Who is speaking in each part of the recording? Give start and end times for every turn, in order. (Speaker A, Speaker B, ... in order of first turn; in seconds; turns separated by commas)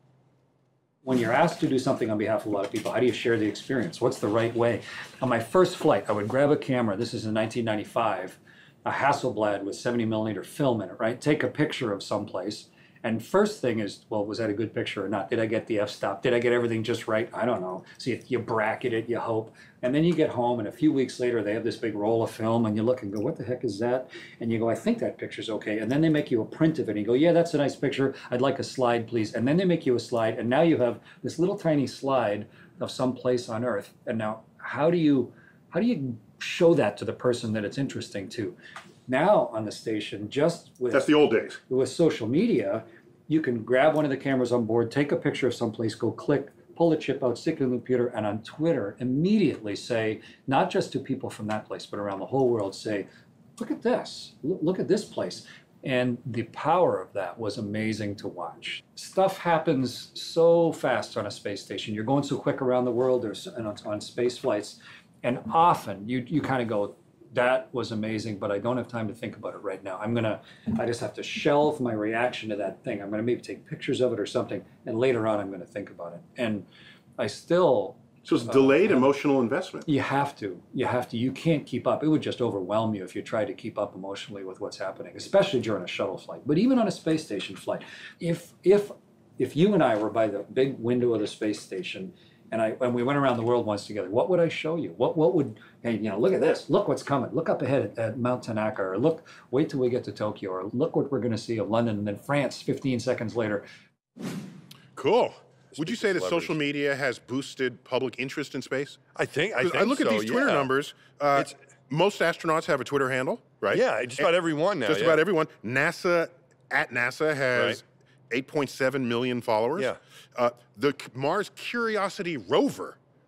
Speaker A: 1.0-38.5, Speaker A: 39.1-41.1, Speaker B: 40.9-41.6, Speaker A: 41.7-76.7, Speaker A: 77.2-79.1, Speaker B: 78.2-79.9, Speaker A: 79.9-103.7, Speaker B: 104.9-109.0, Speaker C: 105.8-106.5, Speaker C: 109.2-110.7, Speaker B: 109.6-114.3, Speaker C: 113.7-115.2, Speaker B: 114.8-123.0, Speaker C: 117.5-117.8